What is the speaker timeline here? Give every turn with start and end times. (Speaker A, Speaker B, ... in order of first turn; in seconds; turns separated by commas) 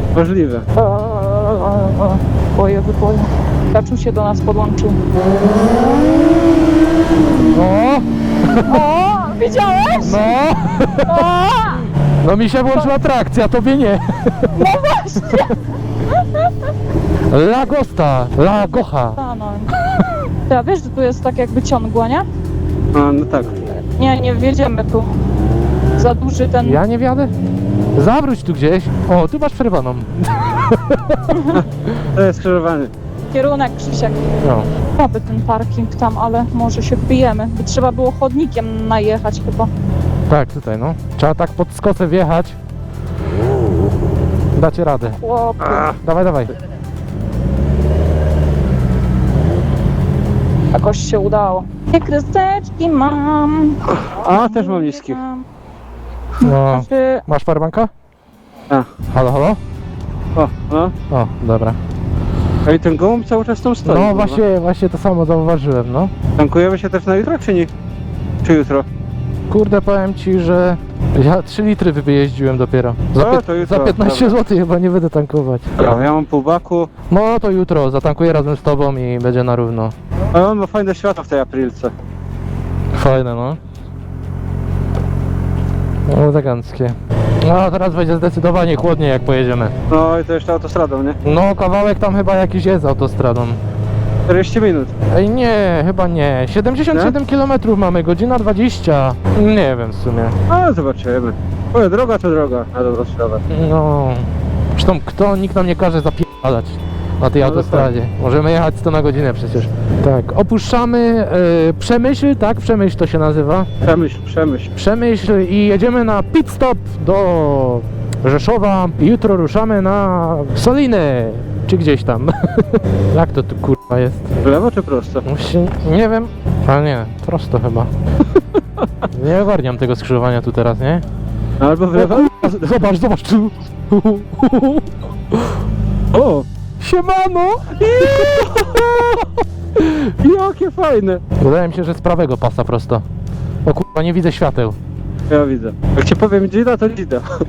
Speaker A: 0.1-0.6, Speaker B: 0.8-5.0, Speaker C: 7.5-8.8, Speaker B: 8.6-10.3, Speaker C: 10.0-11.2, Speaker B: 11.1-11.9, Speaker C: 12.2-14.5, Speaker B: 14.5-16.5, Speaker C: 17.3-19.2, Speaker B: 19.1-19.7, Speaker B: 20.5-22.2, Speaker A: 22.9-23.5, Speaker B: 24.0-25.1, Speaker B: 25.9-26.8, Speaker C: 26.6-27.3, Speaker C: 27.9-31.1, Speaker B: 31.3-31.6, Speaker A: 32.1-32.9, Speaker B: 33.3-34.2, Speaker C: 34.4-34.7, Speaker B: 34.9-39.7, Speaker C: 40.3-42.5, Speaker C: 44.5-46.5, Speaker B: 45.1-45.9, Speaker B: 50.7-55.4, Speaker A: 54.2-55.2, Speaker B: 56.4-57.2, Speaker C: 56.4-57.9, Speaker C: 59.1-59.6, Speaker A: 60.4-60.9, Speaker C: 61.1-61.8, Speaker A: 62.6-64.4, Speaker C: 63.8-66.1, Speaker A: 66.4-67.7, Speaker A: 68.4-68.8, Speaker C: 69.5-75.9, Speaker A: 73.5-74.1, Speaker A: 75.9-76.9, Speaker C: 77.1-79.9, Speaker A: 80.3-81.9, Speaker C: 82.9-83.6, Speaker C: 86.1-89.7, Speaker A: 89.9-91.1, Speaker C: 91.2-93.6, Speaker A: 94.3-94.9, Speaker C: 95.1-100.3, Speaker A: 100.5-103.3, Speaker C: 103.5-113.7, Speaker A: 107.5-107.8, Speaker A: 113.8-114.7, Speaker C: 114.7-124.3, Speaker A: 124.5-125.2, Speaker C: 125.2-127.9, Speaker C: 129.1-131.0, Speaker A: 131.6-132.3, Speaker C: 131.9-135.4, Speaker A: 136.2-136.4, Speaker C: 136.8-139.1, Speaker A: 140.2-141.2, Speaker C: 141.4-143.0, Speaker C: 143.6-144.8, Speaker A: 145.3-147.2